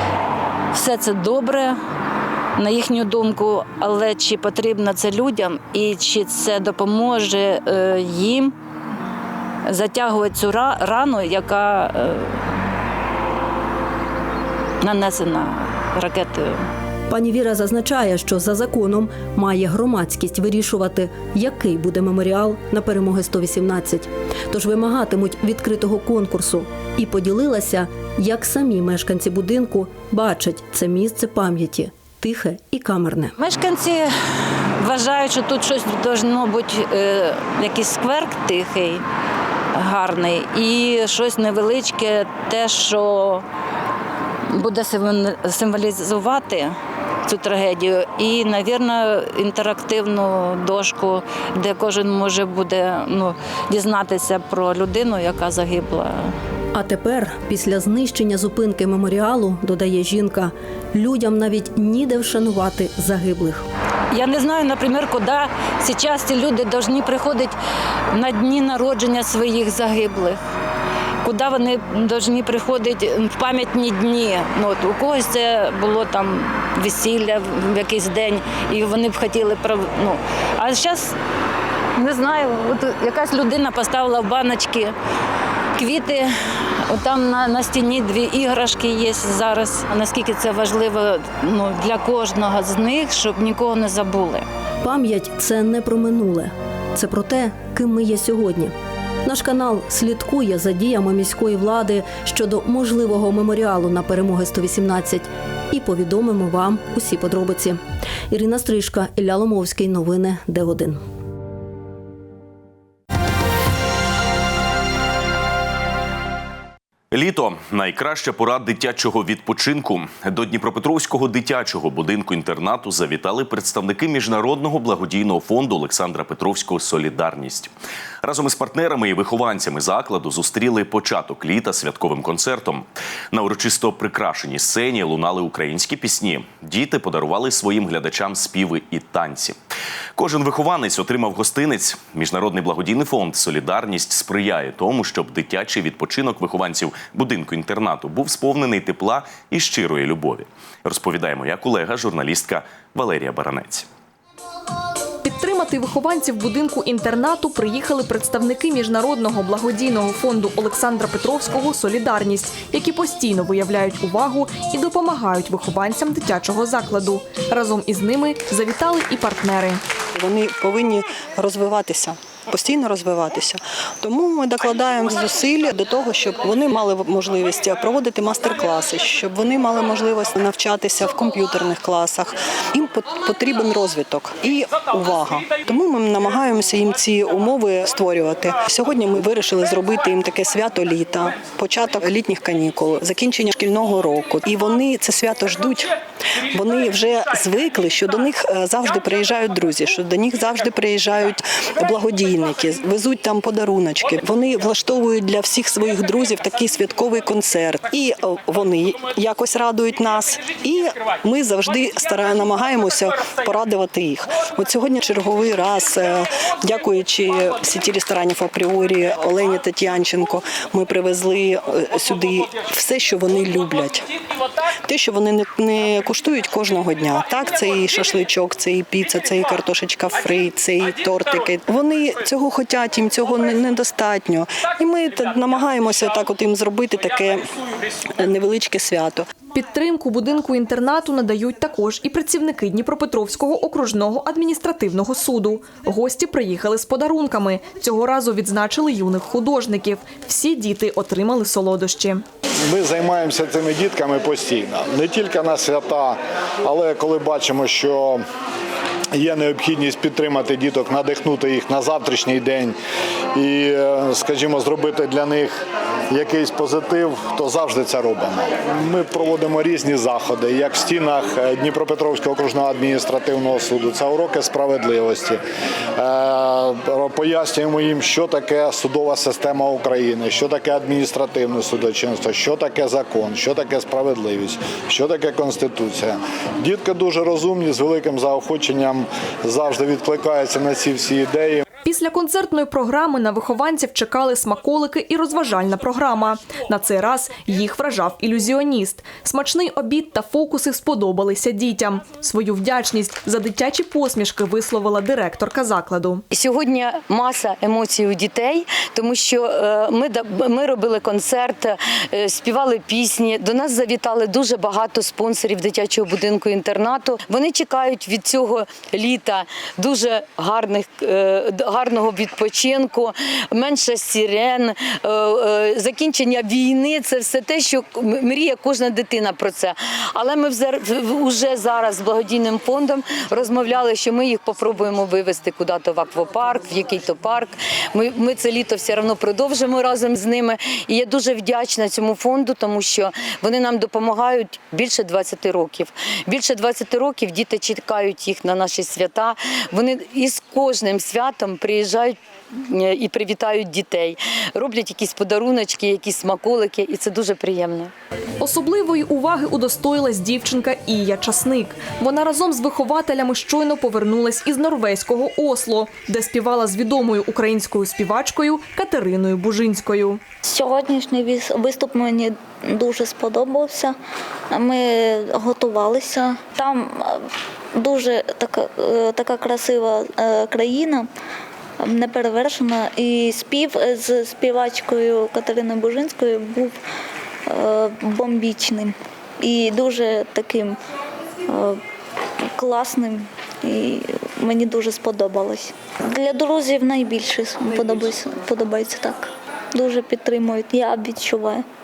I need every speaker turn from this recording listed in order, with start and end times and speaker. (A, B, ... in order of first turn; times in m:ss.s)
0:00.7-0:01.8 A
0:02.6-0:08.5 A
0:09.7-0:12.4 A
0:14.8-0:16.6 A
0:17.1-0:33.3 B
0:33.4-0:34.1 A
0:34.8-0:39.0 A
0:39.8-0:43.4 A
0:44.5-0:46.7 A
0:47.3-0:56.3 A
0:56.7-1:03.7 B
1:04.1-1:07.6 A
1:08.1-1:10.4 A
1:11.2-1:21.2 A
1:22.0-1:24.9 A
1:25.8-1:26.3 A
1:26.9-1:34.4 A
1:34.8-1:38.7 B
1:39.2-1:51.0 B
1:57.1-2:07.7 C
2:08.2-2:19.6 C
2:20.2-2:33.9 C
2:35.2-2:49.8 D
2:50.1-3:15.9 E
3:16.5-3:44.1 E
3:44.8-3:57.5 E
3:58.1-3:59.3 E
3:59.5-4:12.2 D
4:12.7-4:18.2 F
4:19.1-4:22.8 F
4:23.3-4:25.6 F
4:26.1-4:35.4 F
4:36.0-4:51.6 F
4:51.8-5:06.2 D
5:06.3-5:57.9 G
5:58.4-6:10.2 D
6:10.5-6:14.0 H
6:14.5-6:21.1 H
6:21.8-6:26.8 H
6:27.5-6:30.8 H
6:31.5-6:31.8 H
6:32.5-6:41.6 H